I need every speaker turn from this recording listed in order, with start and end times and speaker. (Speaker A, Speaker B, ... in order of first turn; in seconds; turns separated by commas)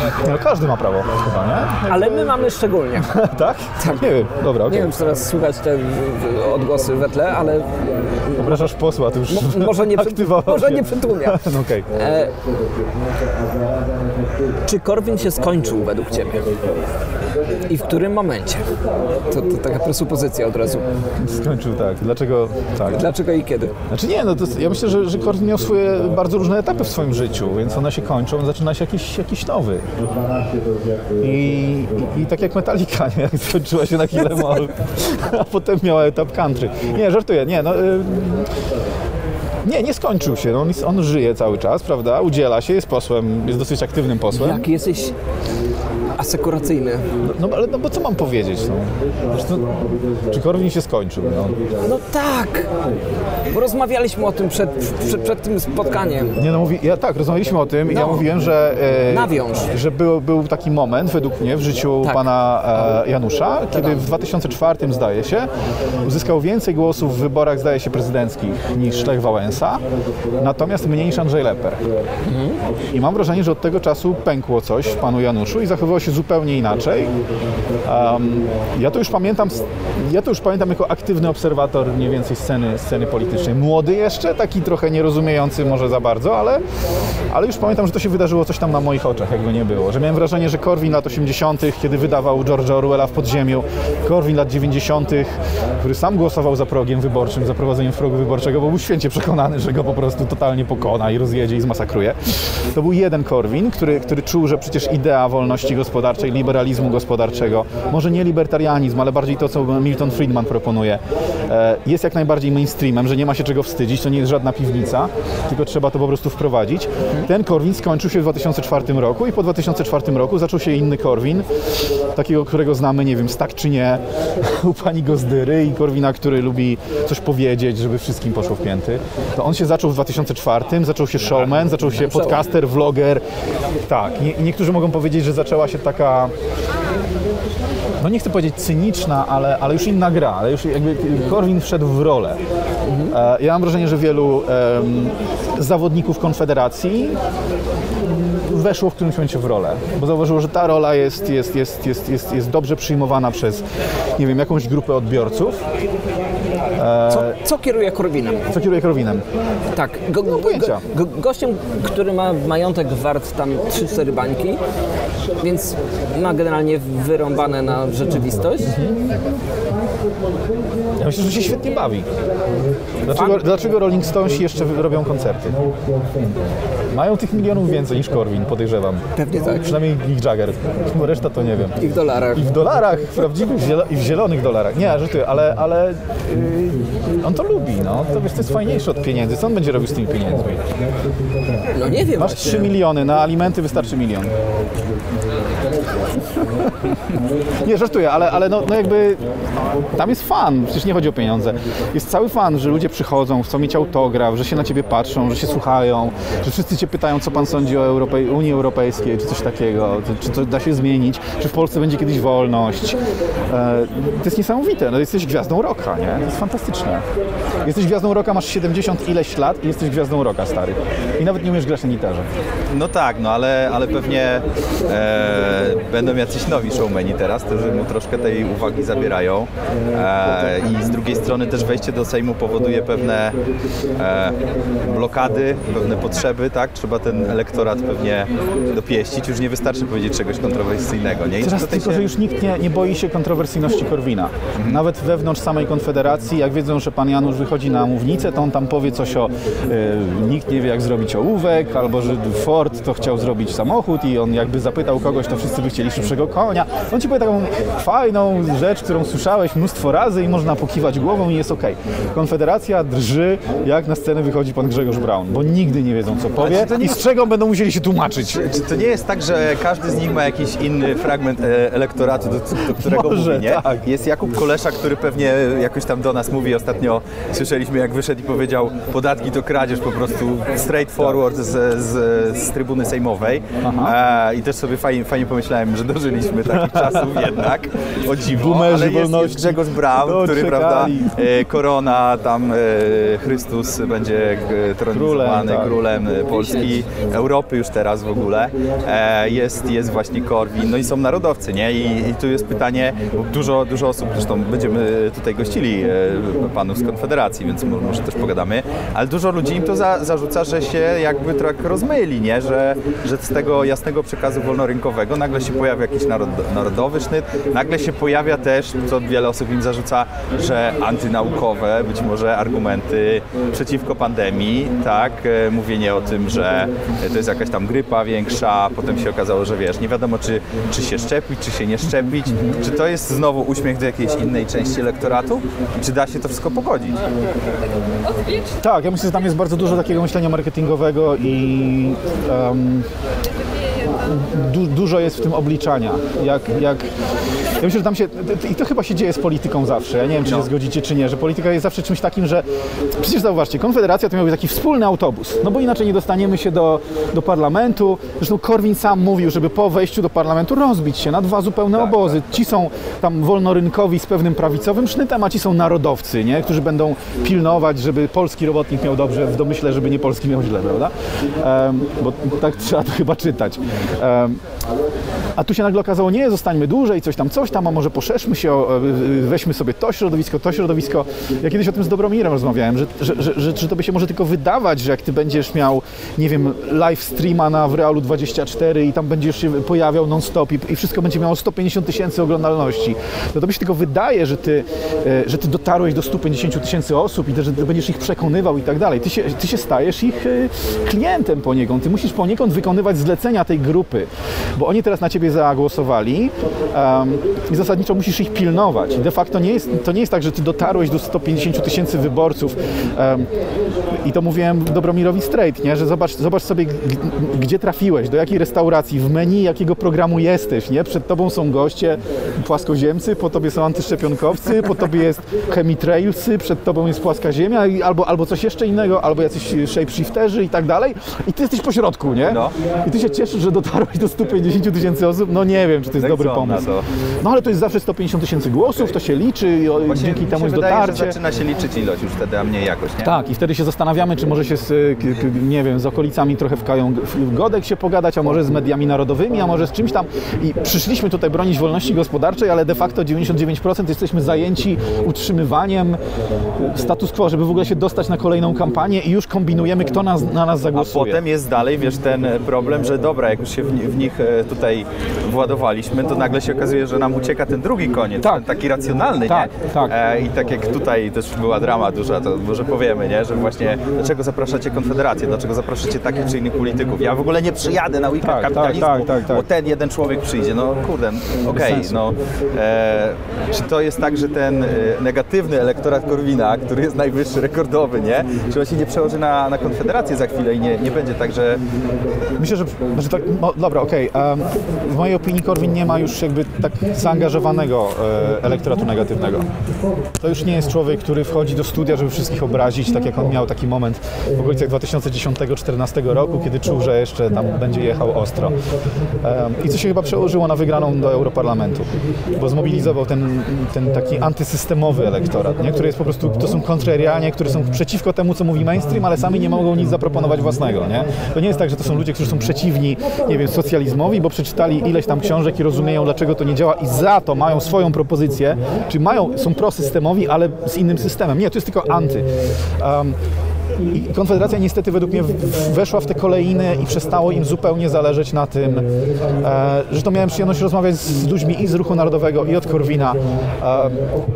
Speaker A: 0.2-2.3, Speaker B: 1.9-3.1, Speaker A: 3.0-4.9, Speaker B: 3.8-4.1, Speaker B: 4.7-8.6, Speaker A: 8.3-11.9, Speaker B: 9.3-11.4, Speaker B: 11.9-12.3, Speaker B: 14.6-16.5, Speaker B: 17.7-18.7, Speaker B: 19.3-20.9, Speaker A: 21.2-23.1, Speaker B: 22.9-23.7, Speaker A: 23.9-29.8, Speaker A: 31.2-38.5, Speaker A: 39.6-44.6, Speaker B: 44.3-45.1, Speaker B: 46.2-47.0, Speaker A: 47.2-51.6, Speaker B: 51.8-52.7, Speaker B: 53.5-56.3, Speaker A: 56.4-65.5, Speaker B: 57.9-58.3, Speaker B: 59.1-59.7, Speaker B: 63.7-64.0, Speaker A: 66.0-69.8, Speaker A: 70.4-71.8, Speaker B: 72.3-72.6, Speaker A: 72.9-77.1, Speaker A: 77.8-86.6, Speaker A: 87.3-102.2, Speaker A: 102.7-121.4, Speaker A: 122.1-133.2, Speaker B: 132.0-132.4, Speaker A: 133.9-136.3, Speaker A: 138.0-142.4, Speaker B: 142.8-143.1, Speaker A: 143.1-147.2, Speaker A: 148.4-153.6, Speaker A: 154.2-155.6, Speaker A: 156.8-157.3, Speaker B: 157.1-158.4, Speaker A: 158.5-159.2, Speaker B: 159.7-164.6, Speaker A: 160.2-160.8, Speaker B: 165.4-168.7, Speaker A: 168.6-169.0, Speaker A: 171.0-172.1, Speaker A: 173.1-175.6, Speaker B: 173.2-173.4, Speaker A: 176.9-179.0, Speaker B: 179.2-179.7, Speaker A: 179.6-181.8, Speaker B: 181.8-182.5, Speaker A: 182.3-190.6, Speaker B: 191.7-192.7, Speaker A: 192.2-194.3, Speaker A: 197.6-199.2, Speaker A: 199.9-213.0, Speaker A: 213.5-217.0, Speaker A: 217.6-222.3, Speaker C: 222.7-233.4, Speaker C: 233.9-242.0, Speaker A: 241.4-268.4, Speaker C: 244.6-244.8, Speaker C: 266.4-267.0, Speaker C: 268.3-337.0, Speaker A: 272.7-273.8, Speaker A: 283.6-283.9, Speaker A: 286.5-287.4, Speaker A: 288.2-291.4, Speaker A: 294.9-295.8, Speaker A: 332.0-332.6, Speaker A: 338.6-342.9, Speaker A: 344.1-346.9, Speaker A: 347.6-352.4, Speaker A: 353.0-374.4, Speaker C: 361.7-362.4, Speaker A: 375.4-413.3, Speaker A: 414.0-436.7, Speaker C: 432.3-432.5, Speaker C: 436.0-436.9, Speaker A: 437.2-441.2, Speaker C: 439.9-443.1, Speaker A: 443.0-456.0, Speaker A: 456.6-461.2, Speaker C: 460.7-491.6, Speaker A: 469.2-469.9, Speaker A: 478.2-479.4, Speaker A: 481.4-482.0, Speaker A: 492.4-499.5, Speaker A: 500.2-508.6, Speaker A: 509.2-532.3, Speaker A: 532.8-533.2, Speaker A: 533.9-538.9, Speaker A: 539.4-544.0